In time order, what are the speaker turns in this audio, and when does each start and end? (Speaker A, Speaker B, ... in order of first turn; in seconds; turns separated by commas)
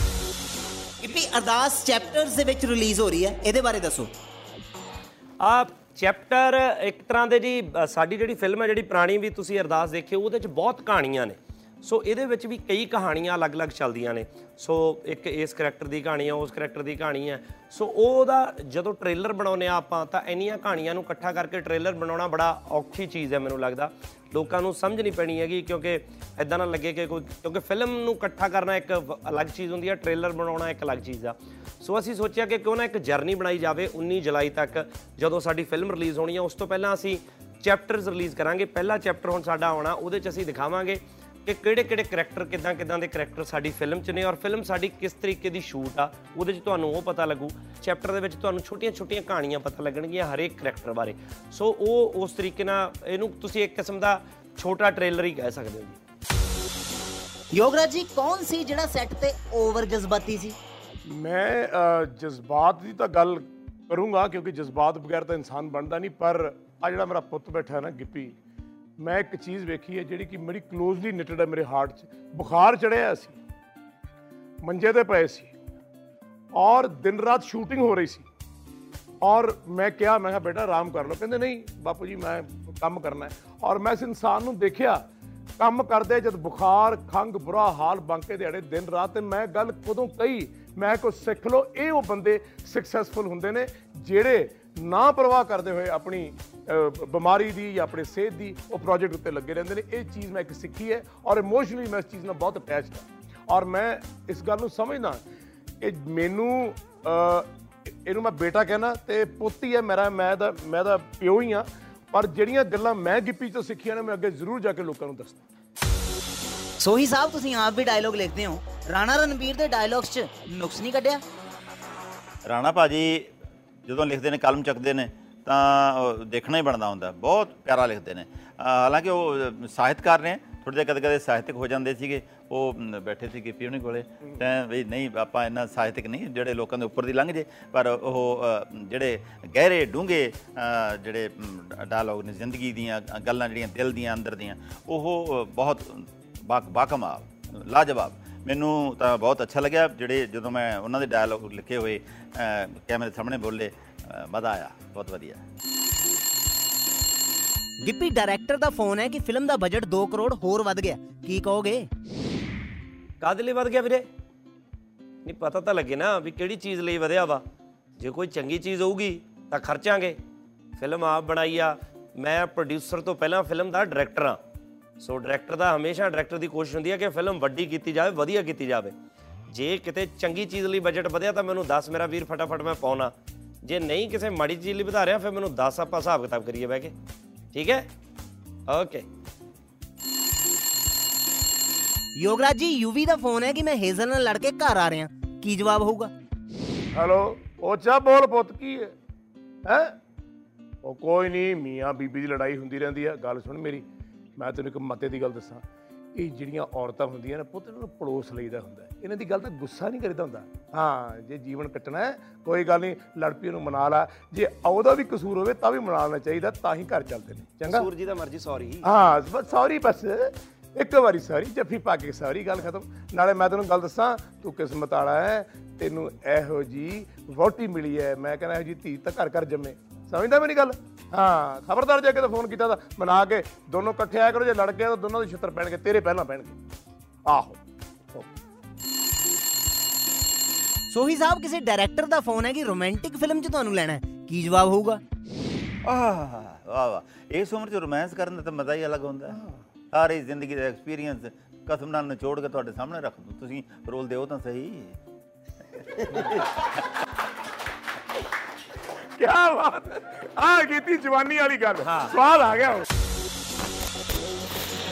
Speaker A: 1.0-4.1, Speaker B: 5.4-56.0, Speaker A: 57.5-60.6, Speaker C: 61.1-68.3, Speaker C: 69.0-73.4, Speaker C: 74.6-75.5, Speaker C: 76.5-78.3, Speaker C: 79.2-85.0, Speaker C: 85.6-105.2, Speaker C: 105.8-107.5, Speaker C: 108.0-115.4, Speaker A: 116.8-121.2, Speaker D: 122.5-123.3, Speaker D: 123.9-155.4, Speaker A: 157.8-161.9, Speaker B: 163.2-164.1, Speaker B: 165.2-167.4, Speaker B: 168.0-170.2, Speaker B: 170.8-174.4, Speaker B: 175.0-178.9, Speaker B: 179.5-186.9, Speaker B: 187.5-187.9, Speaker B: 188.7-189.1, Speaker A: 192.2-196.1, Speaker C: 196.9-198.9, Speaker C: 199.7-199.9, Speaker C: 200.8-203.8, Speaker C: 204.4-205.6, Speaker C: 206.1-217.9, Speaker B: 217.7-218.9, Speaker C: 218.8-236.6, Speaker C: 237.3-237.6, Speaker A: 240.9-245.0, Speaker D: 245.9-249.4, Speaker D: 249.9-255.0, Speaker C: 259.2-262.9